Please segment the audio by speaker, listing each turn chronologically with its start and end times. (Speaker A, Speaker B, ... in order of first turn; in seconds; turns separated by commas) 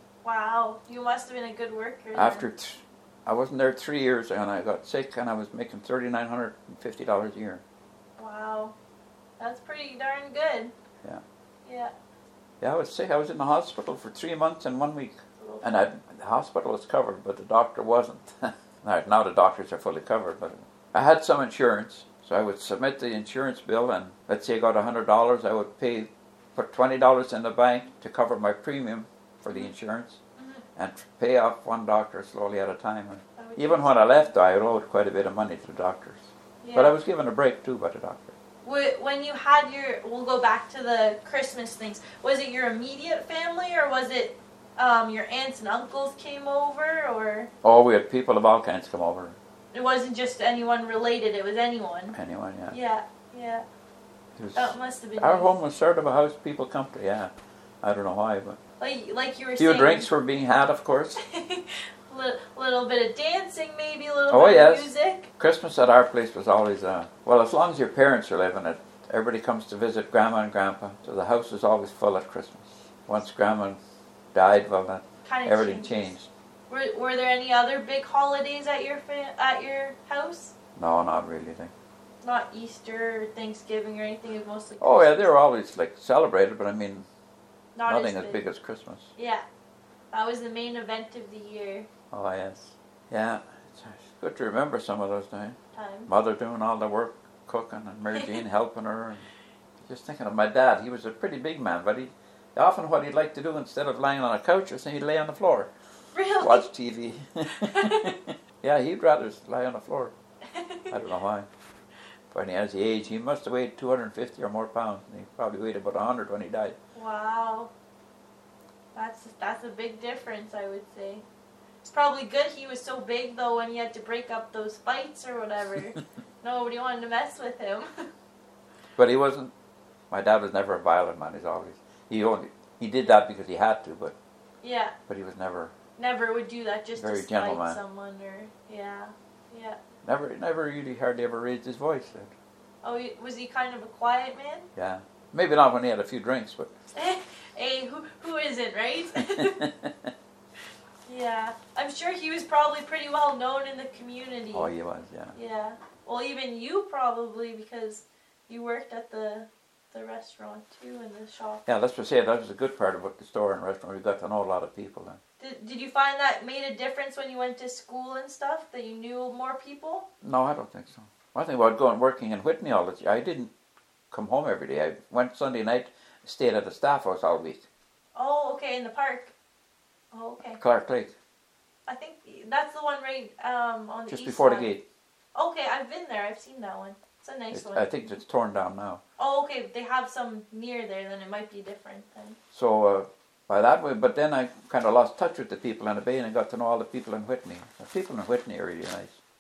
Speaker A: 0.2-2.5, Speaker B: 2.1-7.6, Speaker A: 8.2-8.8, Speaker A: 9.4-10.7, Speaker A: 11.7-11.9, Speaker B: 12.6-30.2, Speaker A: 15.4-15.8, Speaker A: 30.4-30.6, Speaker B: 30.8-38.4, Speaker A: 33.4-34.3, Speaker A: 36.6-37.0, Speaker A: 38.6-47.5, Speaker B: 47.6-49.4, Speaker A: 49.7-52.2, Speaker B: 52.1-52.8, Speaker A: 52.7-53.6, Speaker B: 54.4-58.6, Speaker A: 54.6-55.5, Speaker A: 58.8-60.1, Speaker B: 59.6-61.2, Speaker A: 61.2-65.3, Speaker B: 64.3-73.8, Speaker B: 74.3-76.3, Speaker A: 75.2-76.1, Speaker A: 76.7-80.5, Speaker B: 80.8-81.7, Speaker A: 82.2-85.3, Speaker B: 84.8-87.1, Speaker A: 87.8-88.4, Speaker B: 87.9-89.1, Speaker A: 89.2-89.5, Speaker A: 90.1-91.9, Speaker B: 92.1-99.3, Speaker A: 95.7-96.1, Speaker A: 98.2-98.4, Speaker B: 99.8-105.7, Speaker A: 106.1-106.7, Speaker B: 106.4-110.1, Speaker A: 107.5-108.2, Speaker A: 110.5-111.0, Speaker B: 110.9-111.5, Speaker B: 112.3-116.8, Speaker A: 117.0-117.7, Speaker A: 119.0-121.2, Speaker A: 121.8-128.1, Speaker B: 129.0-129.5, Speaker B: 130.1-134.2, Speaker A: 134.6-134.9, Speaker B: 135.1-135.7, Speaker A: 136.0-139.8, Speaker B: 137.0-137.8, Speaker B: 140.0-142.3, Speaker A: 142.8-144.7, Speaker B: 144.8-146.7, Speaker A: 146.9-149.6, Speaker B: 149.2-150.1, Speaker A: 151.1-154.7, Speaker B: 154.5-155.4, Speaker A: 155.3-161.6, Speaker B: 161.7-165.2, Speaker A: 165.4-170.1, Speaker B: 170.2-173.5, Speaker B: 174.1-177.7, Speaker A: 178.2-179.3, Speaker A: 180.1-180.6, Speaker B: 180.5-181.1, Speaker A: 181.9-184.8, Speaker B: 184.1-184.8, Speaker A: 185.3-188.0, Speaker B: 187.5-189.0, Speaker A: 189.2-192.4, Speaker B: 192.5-199.2